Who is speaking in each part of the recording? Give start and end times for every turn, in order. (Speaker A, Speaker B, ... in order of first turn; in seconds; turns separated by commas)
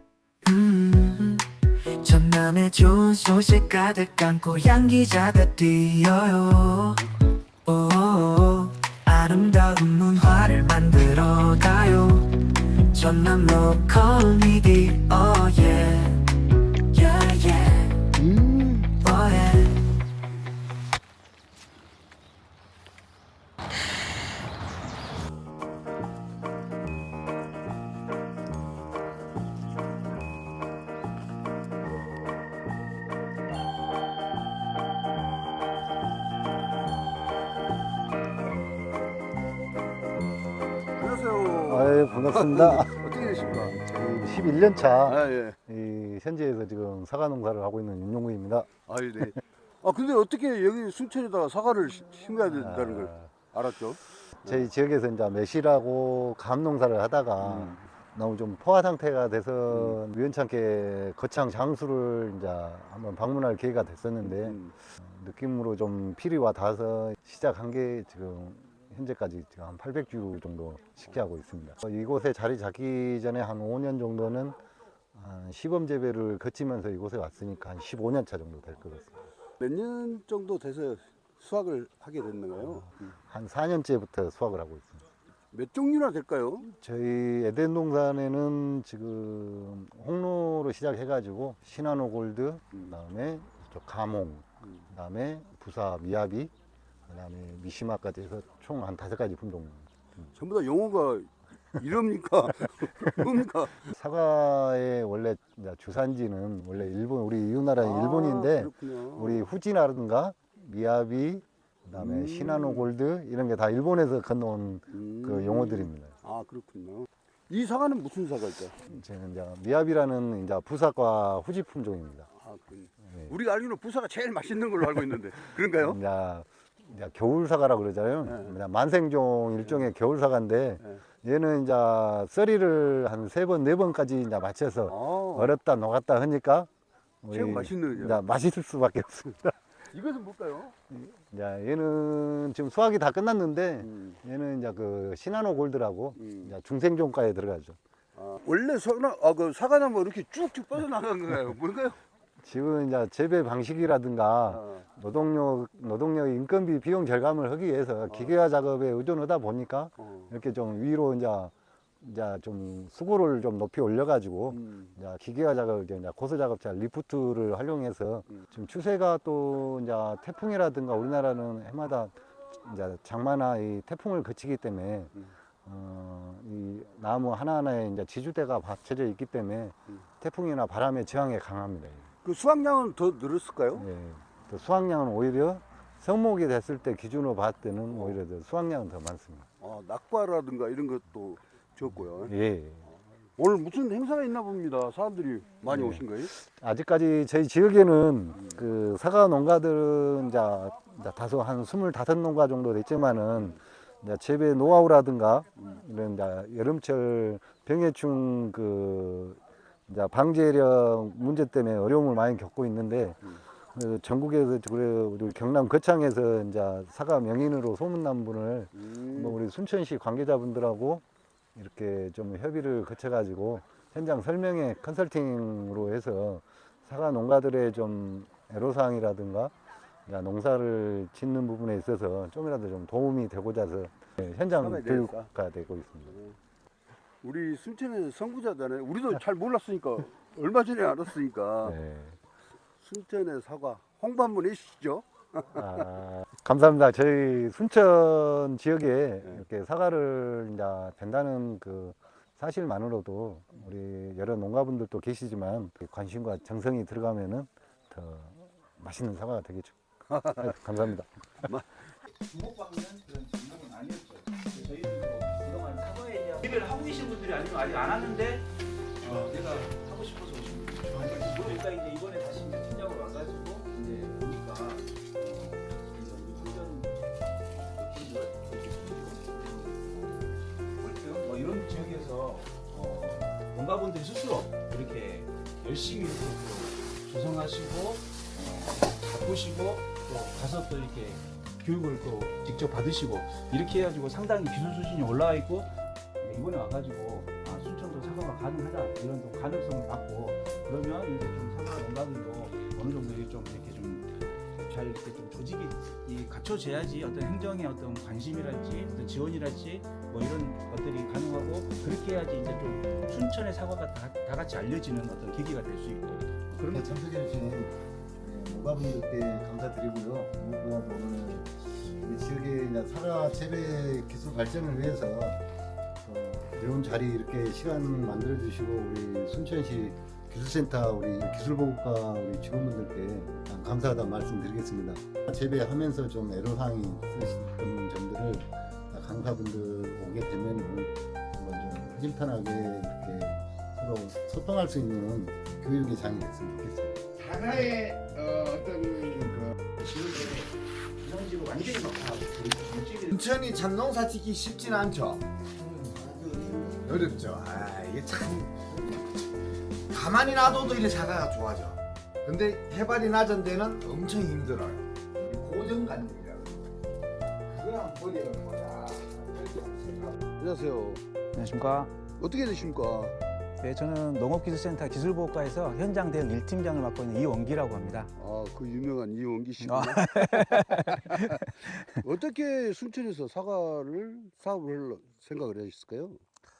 Speaker A: 0.4-1.5, Speaker A: 2.0-7.0, Speaker A: 7.7-16.2, Speaker A: 16.9-18.0, Speaker B: 18.2-18.9, Speaker A: 18.9-19.8, Speaker B: 41.0-43.8, Speaker C: 41.6-48.7, Speaker B: 44.7-45.5, Speaker B: 48.9-54.7, Speaker C: 52.5-53.3, Speaker C: 54.4-74.6, Speaker B: 57.4-57.8, Speaker B: 59.7-60.0, Speaker B: 64.2-64.7, Speaker C: 75.1-79.2, Speaker B: 79.6-83.0, Speaker C: 82.8-85.0, Speaker B: 85.5-86.7, Speaker C: 86.6-96.5, Speaker C: 97.1-100.3, Speaker B: 100.3-103.9, Speaker C: 103.9-116.2, Speaker B: 107.8-109.5, Speaker B: 111.9-112.9, Speaker B: 114.9-118.8, Speaker C: 118.8-122.3, Speaker B: 122.3-126.0, Speaker C: 123.1-123.3, Speaker C: 125.8-136.7, Speaker B: 128.2-128.5, Speaker B: 134.9-135.6, Speaker C: 137.2-139.5, Speaker B: 137.3-138.2, Speaker B: 139.9-140.8, Speaker C: 140.9-147.8, Speaker B: 143.8-144.2, Speaker B: 146.2-146.5, Speaker B: 148.2-152.0, Speaker C: 152.4-182.1, Speaker B: 154.5-154.8, Speaker B: 158.1-158.3, Speaker B: 160.0-160.3, Speaker B: 164.5-164.9, Speaker B: 182.2-183.8, Speaker C: 183.8-189.5, Speaker B: 187.9-188.2, Speaker B: 189.6-192.3, Speaker C: 192.2-192.8, Speaker B: 192.8-196.3, Speaker C: 195.7-221.0, Speaker B: 198.3-198.6, Speaker B: 218.7-219.4, Speaker C: 221.5-229.5, Speaker C: 230.1-236.2, Speaker B: 234.6-235.3, Speaker B: 236.1-236.3, Speaker B: 237.2-241.8, Speaker C: 241.6-242.2, Speaker B: 242.8-245.9, Speaker C: 245.5-259.8, Speaker B: 260.1-260.6, Speaker C: 260.3-261.1, Speaker D: 262.3-268.5, Speaker D: 269.0-276.9, Speaker D: 277.5-280.2, Speaker D: 280.8-304.1, Speaker D: 304.6-316.9, Speaker C: 316.7-325.4, Speaker C: 326.0-347.0, Speaker E: 347.2-349.5, Speaker D: 349.8-353.2, Speaker E: 353.1-355.2, Speaker E: 356.7-359.0, Speaker E: 359.9-366.7, Speaker E: 367.5-370.1, Speaker B: 370.4-371.0, Speaker D: 371.3-371.9, Speaker B: 372.2-373.1, Speaker D: 373.6-378.1, Speaker B: 378.2-381.4, Speaker D: 379.6-381.8, Speaker B: 381.9-386.2